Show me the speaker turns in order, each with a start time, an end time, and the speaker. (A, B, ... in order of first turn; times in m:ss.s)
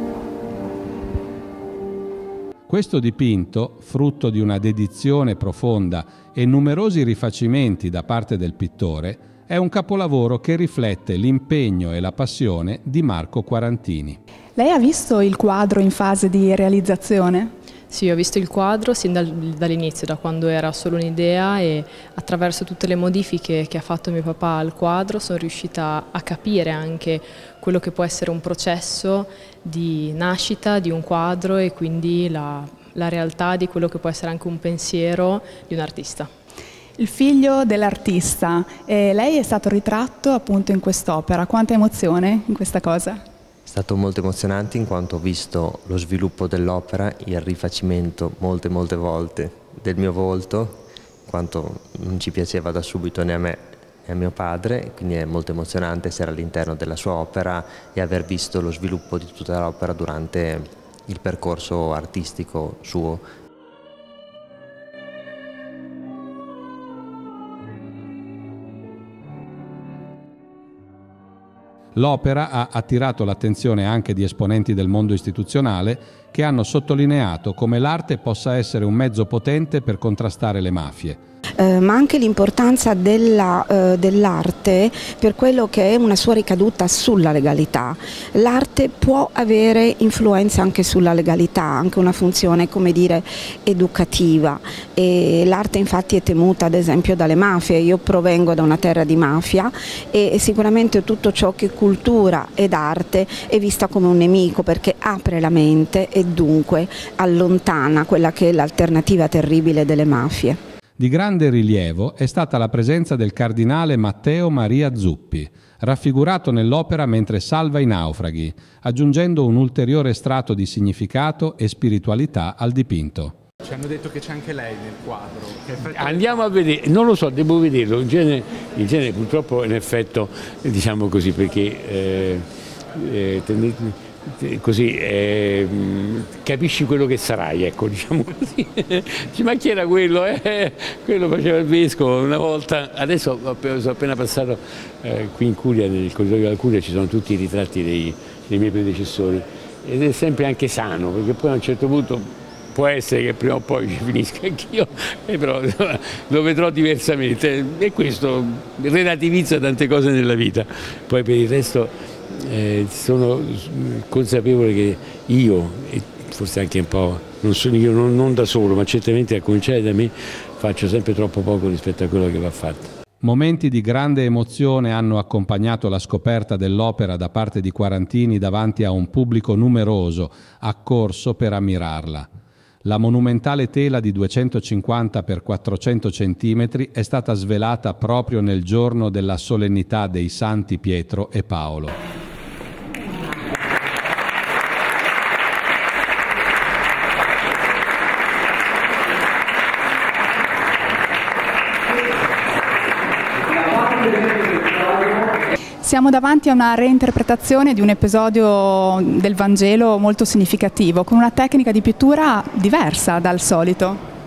0:02.7-0:14.2 A
0:14.6-0:17.5 B
0:17.9-0:36.3 C
0:37.0-0:43.2 B
0:43.6-1:03.2 D
1:11.9-1:21.2 A
1:21.6-1:50.6 E
1:51.0-2:03.4 A
2:03.7-2:06.5 F
2:05.9-2:52.9 G
2:53.2-3:02.3 A
3:02.8-3:12.0 A
3:25.8-3:34.0 B